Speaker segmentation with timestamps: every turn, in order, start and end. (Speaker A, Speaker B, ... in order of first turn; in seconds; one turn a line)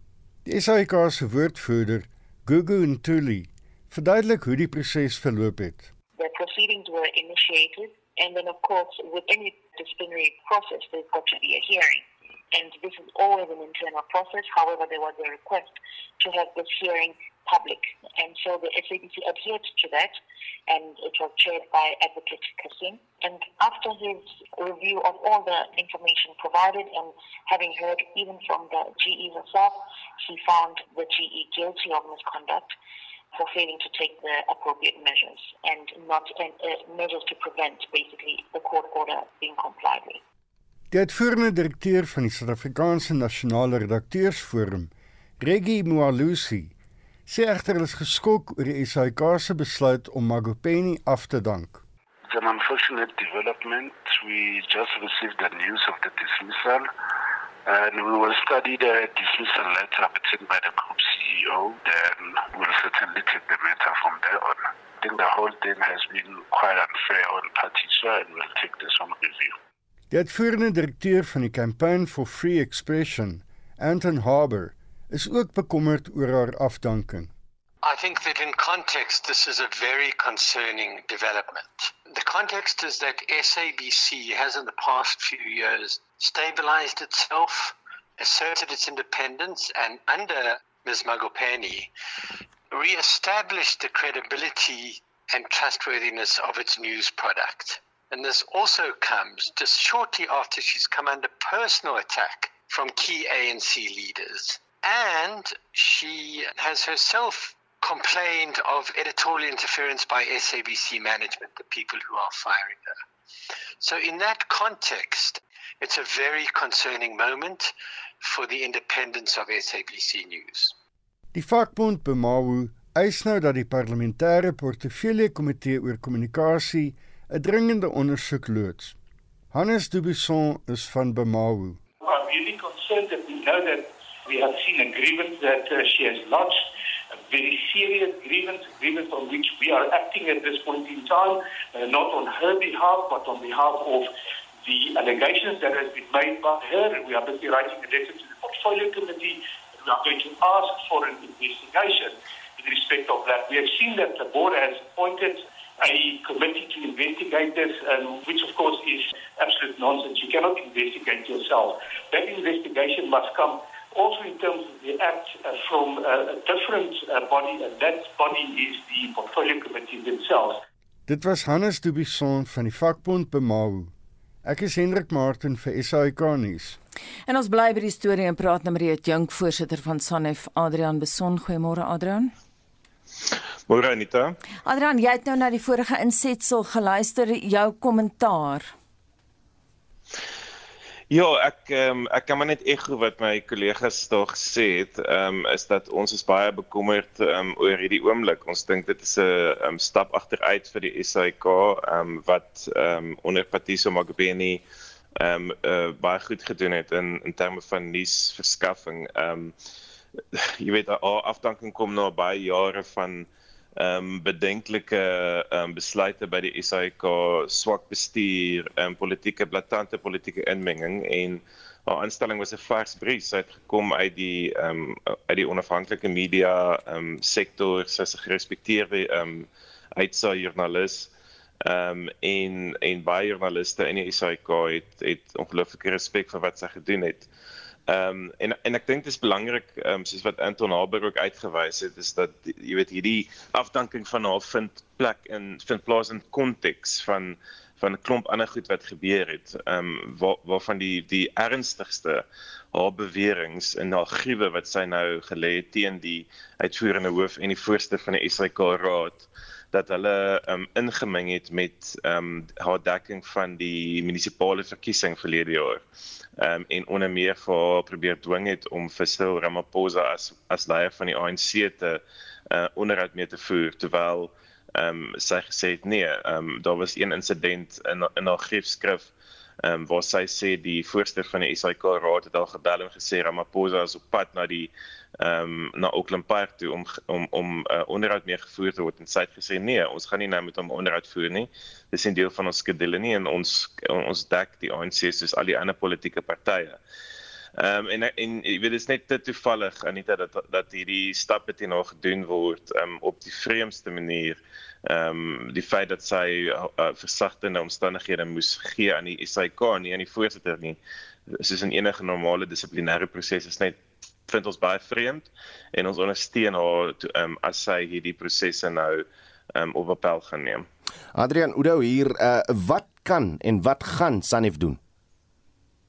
Speaker A: 0.4-5.9
Speaker B: 6.2-20.2
Speaker B: 20.7-32.7
Speaker B: 33.3-40.2
Speaker A: 40.9-46.7
Speaker A: 47.3-51.8
Speaker C: 52.3-56.9
Speaker C: 57.6-69.5
Speaker A: 70.1-77.3
Speaker D: 77.8-91.9
Speaker D: 92.7-113.0
Speaker D: 113.8-120.7
Speaker A: 121.3-128.9
Speaker A: 129.5-131.8
Speaker E: 132.0-136.6
Speaker E: 137.2-144.1
Speaker E: 144.6-170.6
Speaker A: 171.1-173.9
Speaker A: 174.4-176.8
Speaker F: 177.3-182.3
Speaker G: 183.7-184.3
Speaker F: 184.6-188.7
Speaker G: 191.1-204.6
Speaker G: 205.2-209.5
Speaker G: 210.3-231.1
Speaker G: 231.6-237.3
Speaker G: 237.9-265.8
Speaker G: 266.4-279.1
Speaker G: 279.6-296.8
Speaker G: 297.6-310.8
Speaker G: 311.3-320.6
Speaker H: 321.1-324.8